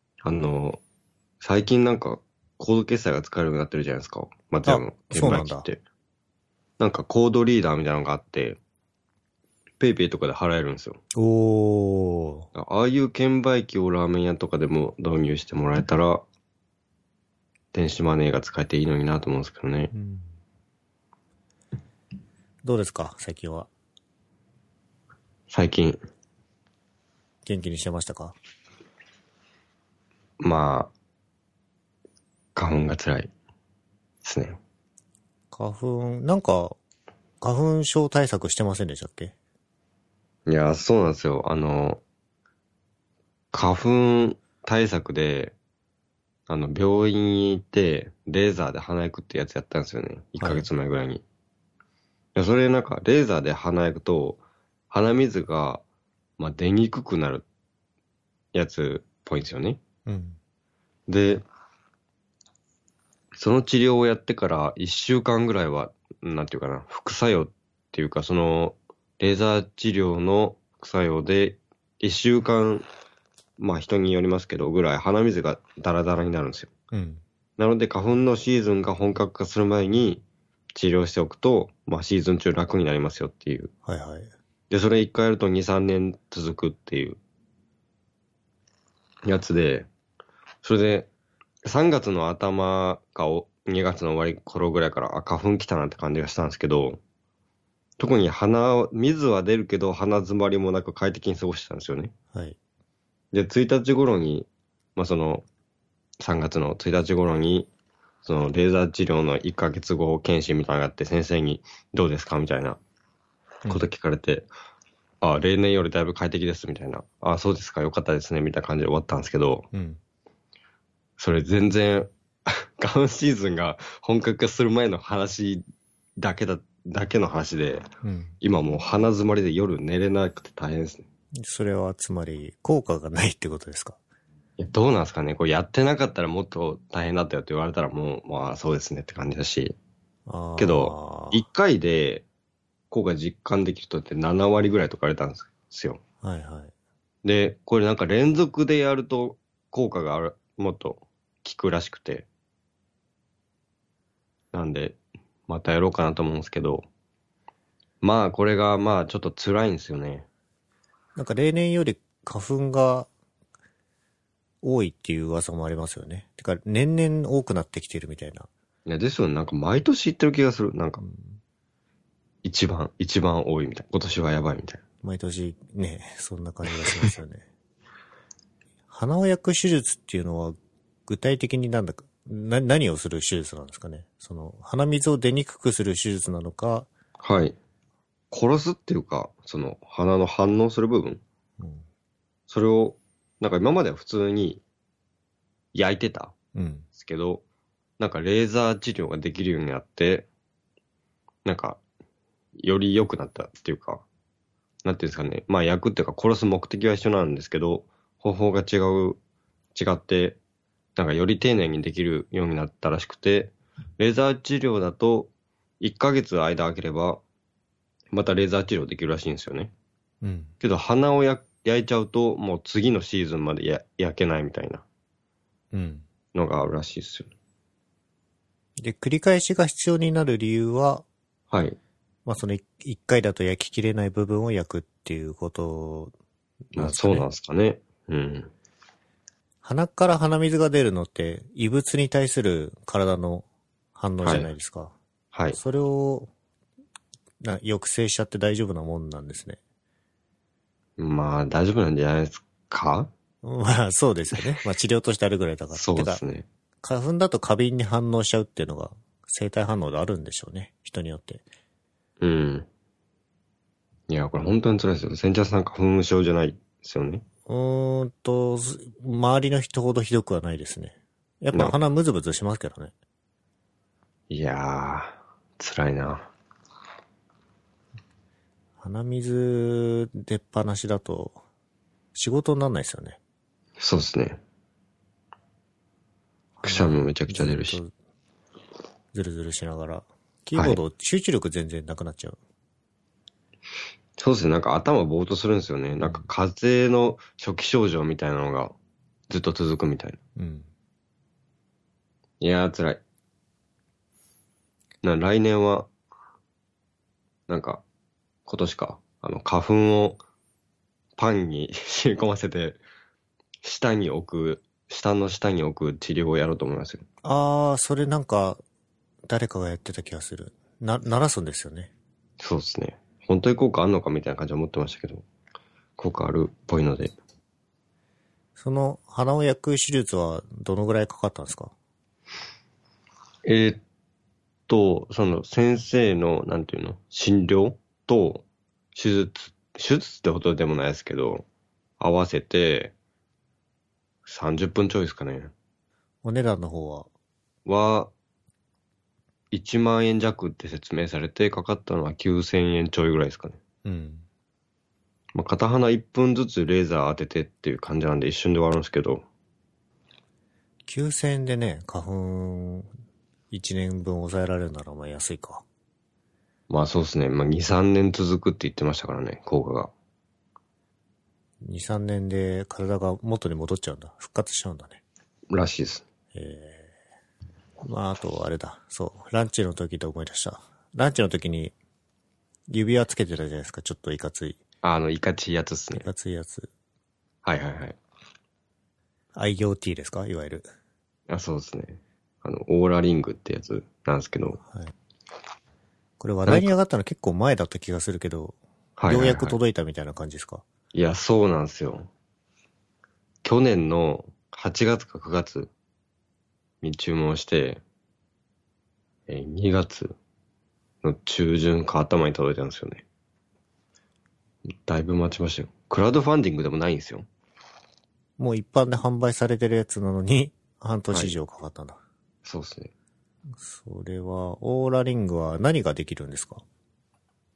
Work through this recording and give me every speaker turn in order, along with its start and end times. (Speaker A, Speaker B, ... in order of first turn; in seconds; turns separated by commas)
Speaker A: 0.2-0.8, Speaker A: 1.4-5.8, Speaker B: 4.7-5.7, Speaker A: 6.8-8.6, Speaker A: 9.8-11.0, Speaker B: 11.1-12.5, Speaker A: 12.5-16.2, Speaker A: 17.7-19.9, Speaker B: 19.9-20.3, Speaker B: 22.6-23.7, Speaker A: 25.5-26.0, Speaker B: 27.4-28.3, Speaker A: 30.4-30.9, Speaker A: 32.5-33.3, Speaker A: 34.2-34.6, Speaker B: 35.5-36.8, Speaker B: 37.4-39.3, Speaker A: 40.5-42.0, Speaker A: 43.5-45.5, Speaker A: 46.5-51.2, Speaker B: 50.4-50.7, Speaker A: 52.3-55.8, Speaker A: 56.4-57.4, Speaker A: 58.5-59.8, Speaker B: 60.0-60.4, Speaker A: 61.1-61.4, Speaker A: 63.4-72.8, Speaker A: 73.6-76.7, Speaker B: 76.9-77.2, Speaker A: 77.6-83.7, Speaker B: 83.8-84.3, Speaker A: 84.7-87.2, Speaker A: 89.2-89.9, Speaker A: 90.6-91.1, Speaker A: 91.6-97.0, Speaker A: 98.0-102.1, Speaker A: 103.3-105.4, Speaker A: 106.2-107.7, Speaker A: 108.2-112.8, Speaker A: 113.7-114.5, Speaker A: 115.2-119.7, Speaker B: 119.7-120.0, Speaker A: 121.2-125.6, Speaker A: 126.2-127.9, Speaker B: 128.0-128.3, Speaker A: 128.4-131.1, Speaker B: 131.4-134.0, Speaker A: 134.6-139.8, Speaker B: 140.3-141.4, Speaker A: 140.6-142.2, Speaker A: 142.9-146.0, Speaker B: 146.2-146.7, Speaker A: 147.2-152.2, Speaker A: 154.5-156.9, Speaker A: 158.0-160.3, Speaker B: 161.2-163.1, Speaker B: 164.6-168.5, Speaker A: 168.9-171.0, Speaker B: 171.0-171.4, Speaker A: 172.4-174.8, Speaker B: 175.0-177.4, Speaker B: 178.9-186.9, Speaker A: 187.2-187.6, Speaker A: 188.3-191.2, Speaker B: 191.6-191.8, Speaker A: 192.5-194.6, Speaker A: 195.7-196.3, Speaker B: 196.6-196.9, Speaker A: 196.9-197.4, Speaker A: 198.0-200.3, Speaker A: 201.4-201.8, Speaker A: 202.6-204.0, Speaker A: 204.8-209.2, Speaker A: 209.8-210.4, Speaker A: 210.9-217.2, Speaker A: 218.1-219.7, Speaker B: 220.2-220.5, Speaker A: 220.6-224.8, Speaker B: 225.7-226.1, Speaker A: 226.3-227.3, Speaker B: 228.8-231.1, Speaker A: 231.5-231.8, Speaker B: 232.2-236.1, Speaker B: 236.7-237.3, Speaker A: 236.8-238.5, Speaker B: 239.6-243.4, Speaker B: 243.9-244.9, Speaker A: 244.2-244.5, Speaker A: 245.3-245.6, Speaker B: 245.5-246.3, Speaker B: 247.4-249.6, Speaker A: 251.0-253.1, Speaker B: 253.4-256.2, Speaker A: 255.7-256.4, Speaker B: 256.8-261.4, Speaker A: 262.2-262.7, Speaker A: 264.1-267.2, Speaker B: 267.4-272.9, Speaker A: 274.3-276.3, Speaker B: 278.8-281.4, Speaker B: 282.1-283.2, Speaker A: 283.8-284.4, Speaker B: 286.6-287.9, Speaker A: 286.6-287.8, Speaker B: 289.1-292.4, Speaker A: 294.2-298.7, Speaker B: 296.0-296.3, Speaker A: 299.3-300.2, Speaker B: 300.4-300.7, Speaker A: 302.4-303.0, Speaker A: 305.0-305.9, Speaker A: 307.5-307.8, Speaker A: 308.4-310.2, Speaker A: 311.2-312.8, Speaker A: 313.6-317.0, Speaker B: 317.2-318.6, Speaker B: 319.2-321.9, Speaker A: 322.4-325.2, Speaker A: 326.0-327.1, Speaker B: 328.6-331.7, Speaker A: 333.4-333.8, Speaker A: 334.7-338.4, Speaker A: 338.9-341.4, Speaker A: 342.0-342.9, Speaker A: 344.2-345.5, Speaker B: 346.2-347.1, Speaker A: 347.6-348.1, Speaker A: 349.5-353.6, Speaker B: 353.8-354.2, Speaker A: 355.3-359.2, Speaker B: 360.9-362.9, Speaker B: 363.5-365.6, Speaker A: 366.7-369.9, Speaker B: 371.6-375.0, Speaker A: 375.5-376.1, Speaker B: 376.3-376.9, Speaker B: 377.8-381.7, Speaker B: 382.7-384.6, Speaker A: 384.8-386.1, Speaker B: 385.9-386.7, Speaker A: 387.4-388.0, Speaker B: 389.3-390.7, Speaker A: 391.3-394.6, Speaker B: 396.2-400.6, Speaker A: 396.5-396.7, Speaker A: 399.0-399.6, Speaker A: 400.9-402.1, Speaker A: 403.4-405.7, Speaker A: 406.8-407.8, Speaker A: 409.3-410.1, Speaker A: 411.0-413.0, Speaker A: 414.7-417.2, Speaker B: 418.4-422.0, Speaker A: 422.4-422.9, Speaker B: 423.6-426.6